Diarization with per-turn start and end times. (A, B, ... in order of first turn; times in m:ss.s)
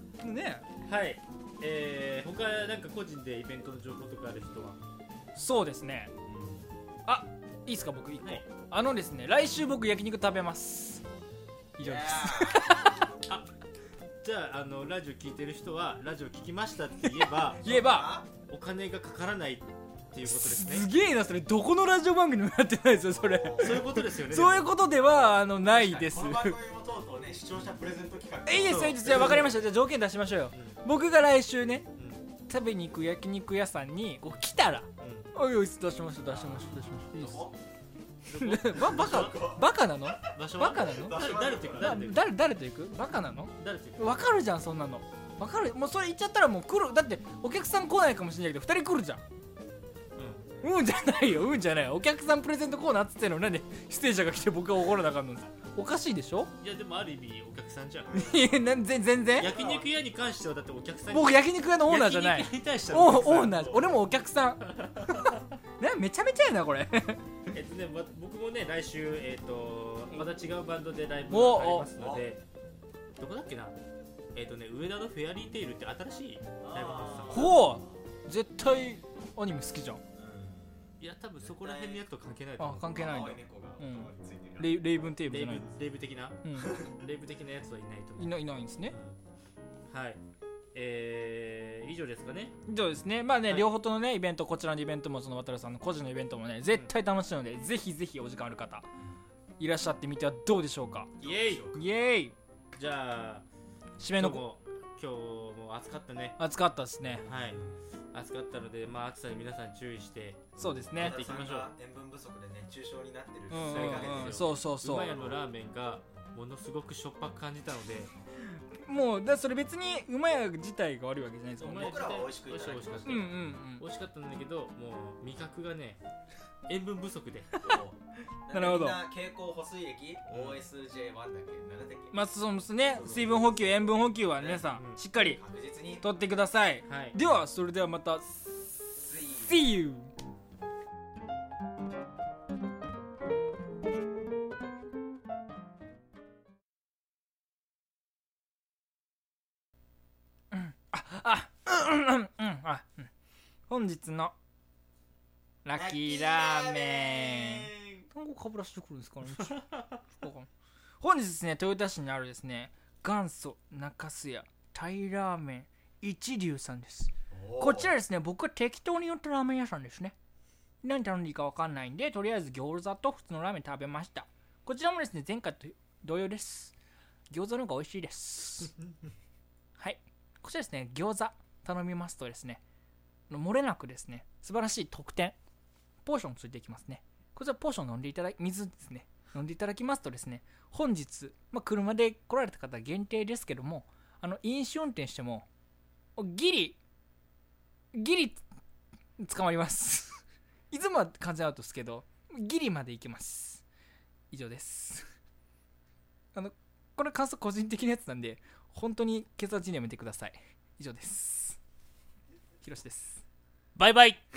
0:00.2-0:00.6 A
0:00.8-0:04.8 B
0:05.4-0:06.1 A
0:06.2-0:06.7 C
0:07.1-0:11.0 A
0:11.8-0:13.0 A
0:11.8-0:13.1 C
0:14.2-0:17.7 B
0:17.0-0:18.2 A
0:17.6-0:18.3 C
0:18.4-0:20.9 B
0:20.3-0:26.6 A
0:23.1-0:23.9 C
0:23.6-0:24.9 B
0:25.0-0:29.6 C
0:28.5-0:31.9 A
0:28.7-0:29.6 B
0:30.5-0:30.8 B
0:32.0-0:32.2 B
0:32.5-0:37.5 A
0:35.0-0:35.3 B
0:37.1-0:37.6 C
0:38.3-0:39.4 B
0:38.3-0:49.2 A
0:38.7-0:40.3 C
0:40.3-0:42.3 B
0:40.9-0:42.1 C
0:43.6-0:44.2 B
0:50.2-0:50.5 B
0:50.6-0:56.5 A
0:56.6-0:58.4 B
0:58.1-0:59.5 A
0:59.4-1:03.9 B
0:59.4-0:59.9 C
1:01.1-1:04.9 A
1:03.5-1:03.8 C
1:04.7-1:05.4 B
1:05.8-1:07.2 A
1:07.5-1:12.4 B
1:11.3-1:11.9 A
1:11.9-1:12.4 C
1:13.2-1:13.8 B
1:14.4-1:17.6 B
1:16.6-1:17.9 C
1:17.3-1:20.0 A
1:20.2-1:22.1 C
1:21.0-1:23.1 B
1:22.6-1:25.7 A
1:22.8-1:24.9 C
1:25.3-1:29.2 B
1:26.4-1:26.8 A
1:28.2-1:28.9 A
1:29.9-1:30.2 B
1:30.7-1:32.6 B
1:32.7-1:38.9 A
1:39.6-1:41.1 A
1:41.2-1:41.7 B
1:41.2-1:41.9 C
1:41.8-1:42.3 A
1:42.7-1:43.4 B
1:44.0-1:44.4 A
1:44.0-1:46.4 B
1:46.4-1:47.3 A
1:47.1-1:47.8 C
1:47.2-1:47.6 B
1:48.1-1:51.7 B
1:50.6-1:51.2 A
1:50.6-1:55.4 C
1:53.5-1:55.1 A
1:53.6-1:58.1 B
1:58.5-2:02.0 A
2:01.6-2:06.0 B
2:01.6-2:03.4 C
2:03.0-2:03.8 A
2:06.7-2:07.5 B
2:07.6-2:12.2 C
2:08.5-2:09.0 A
2:10.3-2:10.6 B
2:12.1-2:15.4 A
2:12.9-2:13.6 C
2:14.2-2:16.1 C
2:16.0-2:18.3 A
2:16.9-2:17.2 B
2:18.9-2:19.6 C
2:19.4-2:20.1 A
2:30.5-2:33.1 A
2:33.7-2:34.3 A
2:35.6-2:40.5 A
2:35.8-2:38.1 C
2:39.4-2:39.8 B
2:41.0-2:50.2 A
2:47.3-2:48.0 C
2:50.8-2:56.7 A
2:57.3-2:58.8 A
2:59.8-3:02.6 A
3:03.3-3:05.4 A
3:06.0-3:15.5 A
3:16.2-3:16.8 A
3:17.9-3:18.4 A
3:19.2-3:23.6 A
3:24.3-3:25.1 A
3:26.3-3:31.6 A
3:32.6-3:33.2 A
3:33.8-3:34.2 B